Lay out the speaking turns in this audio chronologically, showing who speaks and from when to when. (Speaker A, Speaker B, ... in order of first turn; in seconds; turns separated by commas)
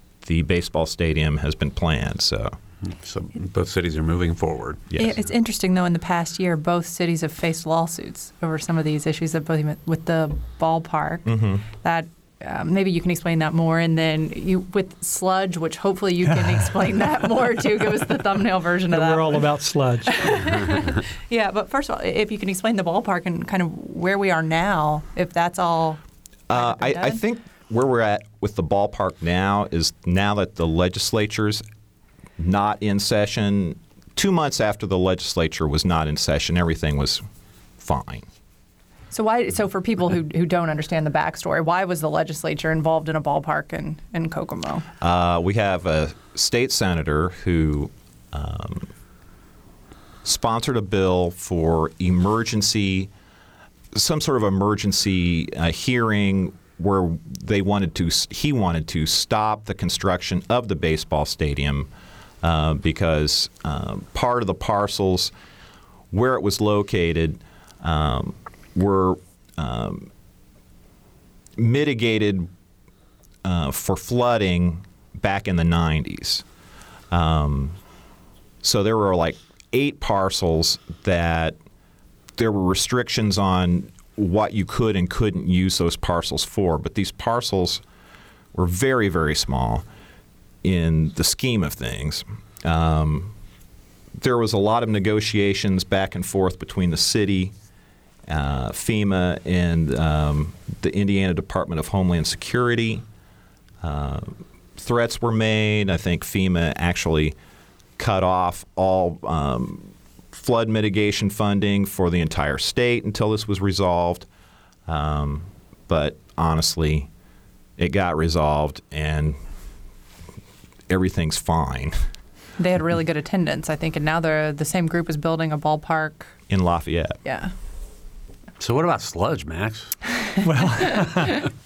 Speaker A: 0.2-2.6, Speaker B: 2.8-4.8, Speaker C: 5.0-19.5, Speaker A: 11.3-11.6, Speaker D: 18.9-20.3, Speaker C: 20.1-26.0, Speaker A: 26.5-31.6, Speaker C: 26.5-27.2, Speaker A: 32.4-37.2, Speaker A: 37.8-38.3, Speaker C: 39.1-44.9, Speaker A: 45.0-48.9, Speaker A: 50.2-53.1, Speaker A: 54.0-61.9, Speaker A: 62.4-65.3, Speaker A: 66.1-70.1, Speaker A: 71.6-72.5, Speaker A: 73.4-76.5, Speaker A: 77.1-77.8, Speaker A: 78.6-81.6, Speaker A: 82.4-87.8, Speaker A: 88.5-89.8, Speaker A: 90.6-93.3, Speaker A: 94.2-97.5, Speaker A: 98.3-103.0, Speaker A: 103.8-107.4, Speaker A: 108.0-114.3, Speaker A: 114.9-117.1, Speaker A: 117.8-119.4, Speaker A: 120.9-122.1, Speaker C: 122.6-126.3, Speaker A: 126.5-127.2, Speaker C: 127.2-127.5, Speaker B: 128.6-130.0, Speaker D: 130.4-131.4, Speaker C: 131.0-131.3